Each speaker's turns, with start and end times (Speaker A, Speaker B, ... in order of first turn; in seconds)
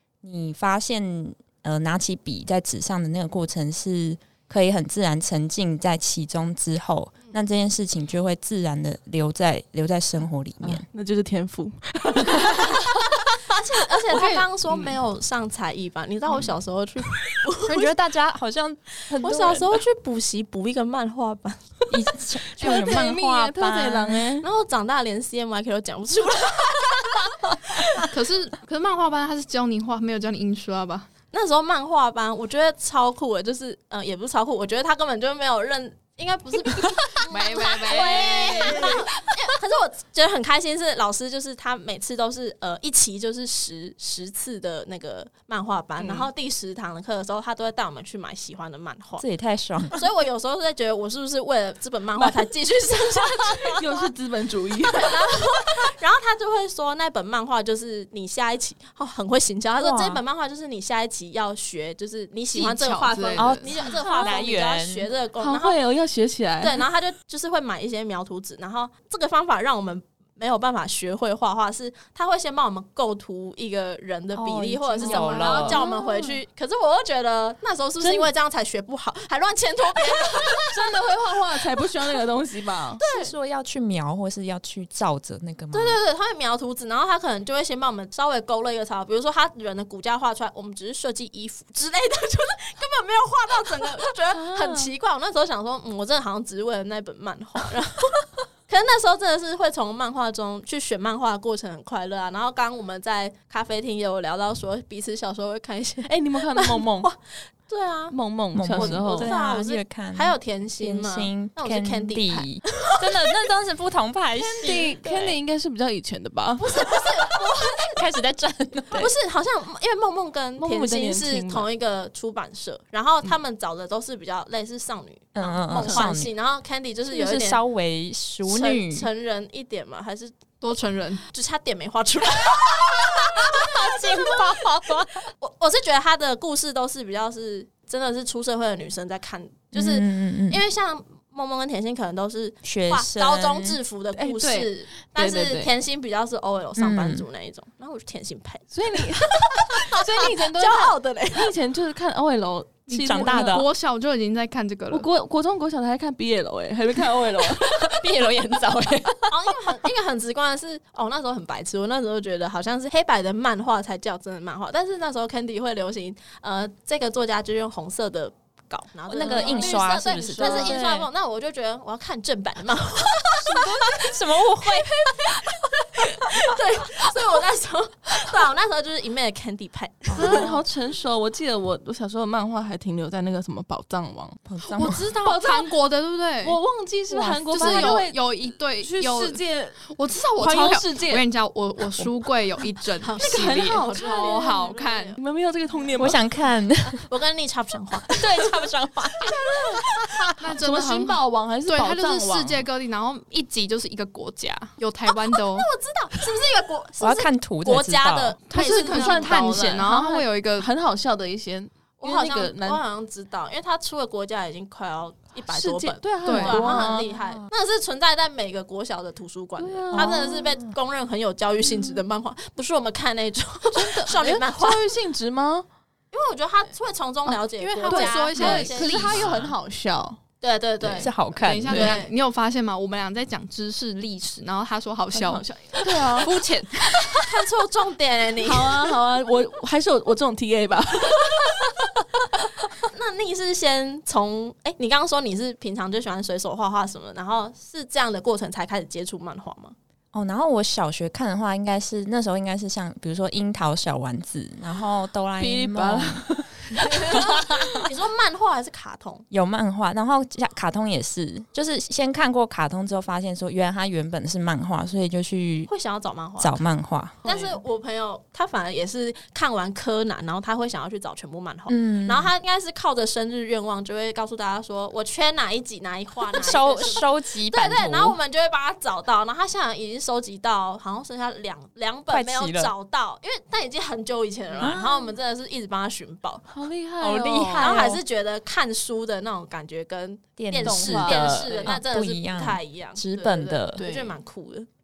Speaker A: 0.2-10.9, 17.6-19.8, 21.9-24.2, 49.2-50.0, 59.8-60.2, 63.4-65.1, 74.3-75.8, 83.0-86.0, 108.5-115.4, 117.0-119.1, 125.3-126.3, 127.1-129.1, 132.6-135.3, 139.7-140.6, 142.6-143.8, 146.8-147.2, 153.0-153.7, 157.6-159.7, 169.1-171.1, 173.5-175.3, 180.1-180.6, 184.5-185.1, 187.1-188.0, 196.0-197.1, 198.1-200.3, 207.0-208.4, 219.9-220.2, 231.0-231.8, 250.1-256.3, 257.1-257.8, 259.3-265.7, 266.4-267.2, 271.7-272.3, 276.3-278.2, 282.1-282.7, 284.6-285.1, 287.0-288.0, 290.4-293.8
Speaker B: 10.6-13.2, 14.1-14.9, 22.6-24.5, 46.0-46.3, 52.2-52.4, 53.6-55.1, 65.4-66.8, 75.4-76.4, 78.0-78.3, 80.6-83.0, 94.3-94.9, 106.0-107.1, 108.1-109.3, 114.4-116.7, 120.6-121.7, 125.8-126.1, 144.2-145.7, 148.7-153.6, 154.9-157.8, 169.2-170.8, 180.2-184.4, 185.1-185.7, 186.4-189.8, 190.4-191.2, 193.2-194.6, 195.2-196.2, 200.6-202.7, 208.5-212.8, 215.5-217.1, 219.6-220.7, 223.7-225.7, 227.9-230.2, 231.7-232.0, 235.1-236.3, 238.4-241.7, 255.4-257.4, 267.2-267.6, 286.5-287.8, 290.6-291.8, 293.8-294.1
Speaker C: 12.4-12.7, 13.4-17.9, 19.2-21.6, 24.4-28.1, 31.3-49.2, 49.9-54.0, 54.9-65.8, 66.6-81.1, 83.0-83.3, 85.7-108.2, 108.7-112.5, 116.6-118.0, 118.9-127.6, 128.5-130.4, 131.3-134.4, 135.4-151.5, 159.3-180.5, 193.0-196.1, 197.0-198.2, 205.5-209.5, 212.0-224.8, 226.1-229.2, 230.4-231.1, 231.7-232.1, 237.2-238.8, 242.8-249.8, 256.9-259.2, 265.7-266.6, 267.2-286.5, 287.6-294.7
Speaker D: 28.1-31.1, 37.3-39.0, 62.5-63.9, 75.1-75.5, 130.6-131.2, 152.9-155.1, 184.6-186.6, 187.5-195.2, 200.4-205.7, 208.5-210.7, 216.2-216.8, 227.6-229.2, 231.4-237.2